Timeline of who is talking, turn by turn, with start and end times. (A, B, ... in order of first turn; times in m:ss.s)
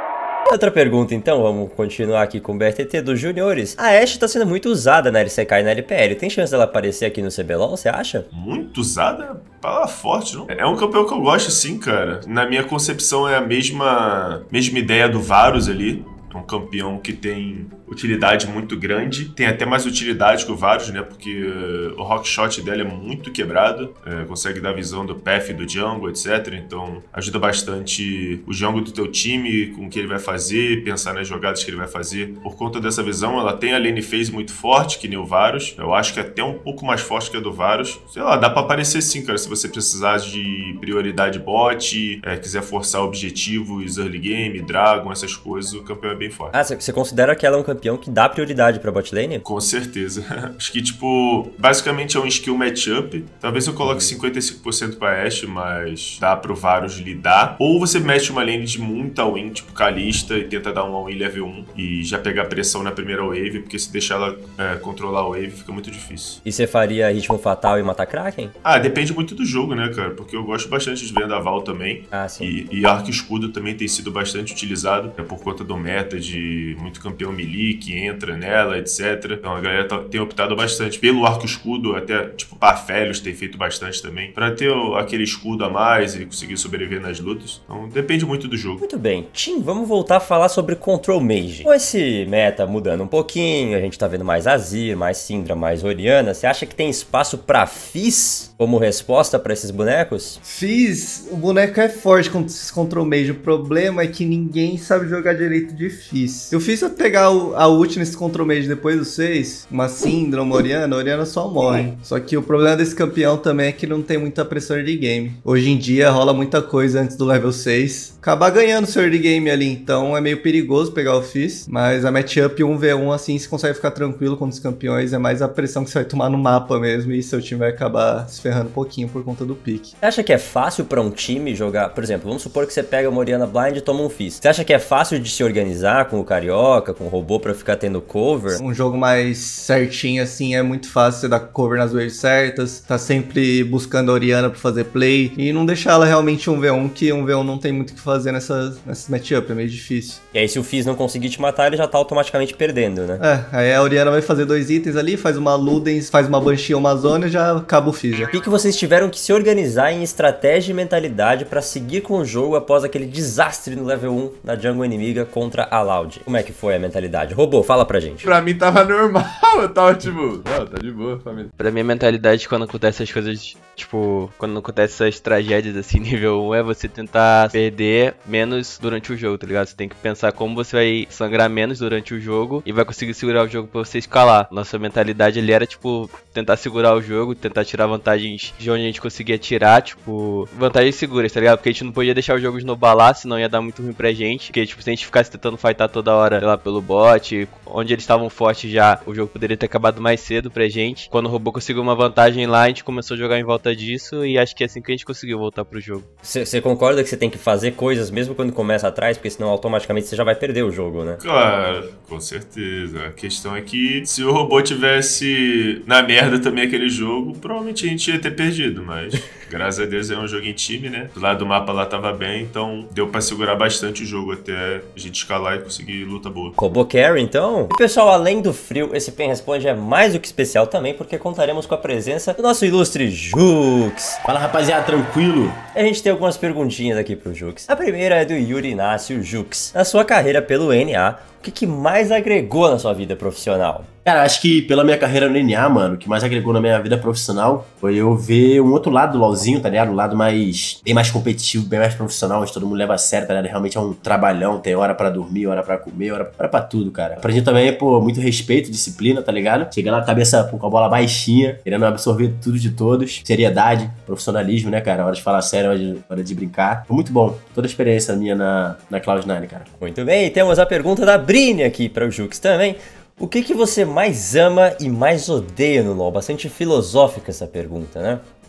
0:00.5-0:08.3 A
0:08.3-0:46.6 B
0:46.5-0:49.4 A
0:49.4-1:06.4 B
0:53.8-0:54.1 A
1:06.4-1:08.5 A
1:08.6-1:28.8 B
1:12.1-1:12.5 A
1:28.8-1:40.4 A
1:40.4-2:09.9 C
2:10.0-2:18.6 A
2:18.5-2:30.2 C
2:30.3-2:33.2 A
2:33.2-2:38.3 C
2:38.3-2:48.3 A
2:48.2-2:51.5 D
2:51.6-3:26.1 E
3:26.2-3:31.2 A
3:31.2-3:46.6 B
3:46.6-3:54.2 A
3:54.2-3:55.6 F
3:55.7-4:03.9 A
4:04.0-4:29.7 F
4:29.8-4:38.2 A